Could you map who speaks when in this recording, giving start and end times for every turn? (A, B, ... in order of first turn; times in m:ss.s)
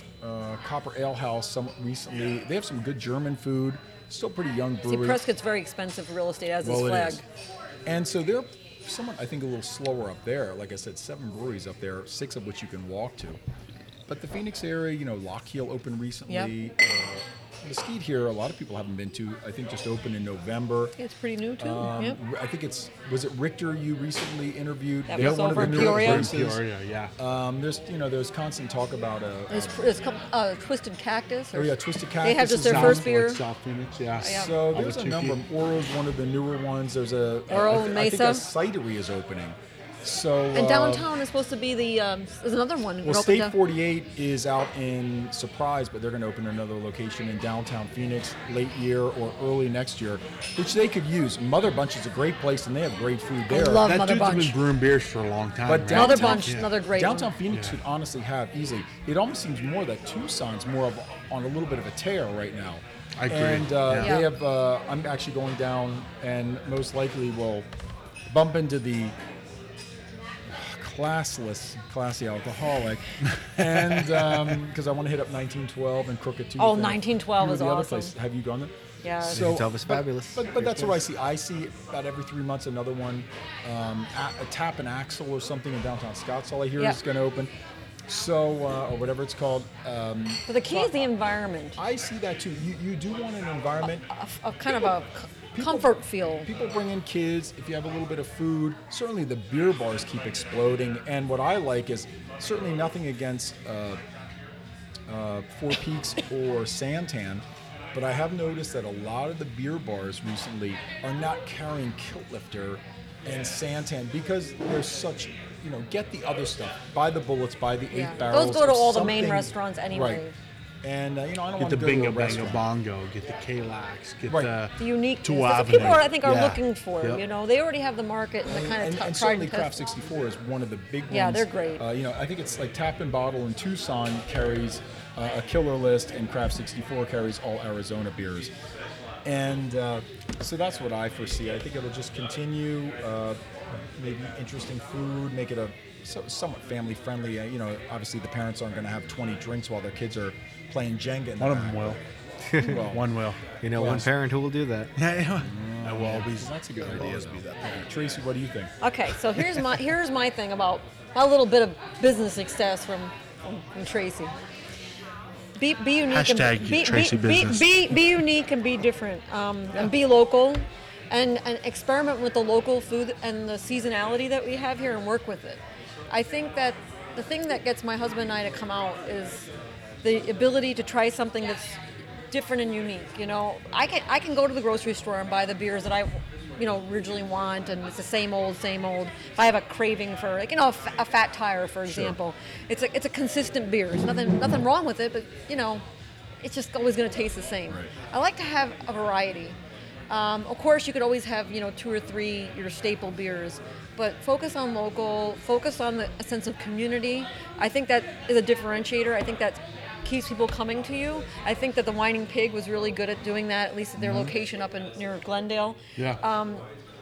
0:00.2-0:05.3 A
0:04.9-0:07.2 B
0:06.6-0:07.2 A
0:07.9-0:13.4 A
0:14.1-0:21.0 A
0:21.0-0:22.2 B
0:21.6-0:26.6 A
0:25.1-0:26.3 B
0:25.2-0:27.1 C
0:27.2-0:29.9 A
0:29.5-0:33.4 B
0:31.5-0:33.1 A
0:32.6-0:35.4 C
0:34.2-0:34.5 B
0:34.2-0:41.1 A
0:37.5-0:38.4 B
0:40.5-0:43.6 B
0:43.0-0:53.9 A
0:53.5-0:54.6 B
0:53.8-0:56.7 C
0:55.6-1:07.7 A
0:55.9-0:57.3 B
0:57.5-0:57.8 C
1:03.2-1:04.2 C
1:04.0-1:04.3 B
1:08.3-1:09.2 A
1:10.5-1:27.5 A
1:13.4-1:14.4 C
1:16.6-1:18.1 B
1:19.0-1:19.6 B
1:19.2-1:21.0 D
1:28.1-1:31.0 A
1:30.5-1:31.8 B
1:31.8-1:34.1 A
1:34.1-1:36.5 B
1:35.5-1:44.0 A
1:45.1-2:00.2 A
1:57.9-2:00.4 B
2:00.8-2:02.6 A
2:01.6-2:07.2 C
2:04.8-2:09.8 B
2:08.4-2:18.5 A
2:11.1-2:11.8 B
2:19.2-2:32.0 A
2:31.4-2:32.0 C
2:32.5-2:32.8 D
2:32.6-2:33.1 A
2:32.7-2:34.1 C
2:33.6-2:34.9 D
2:33.8-2:34.1 A
2:35.0-2:37.9 C
2:35.4-2:38.7 A
2:38.8-2:44.3 B
2:45.6-2:59.5 B
2:46.1-2:48.0 C
3:00.0-3:15.8 B
3:11.9-3:12.2 A
3:16.4-3:19.6 B
3:20.1-3:36.6 B
3:34.0-3:34.3 A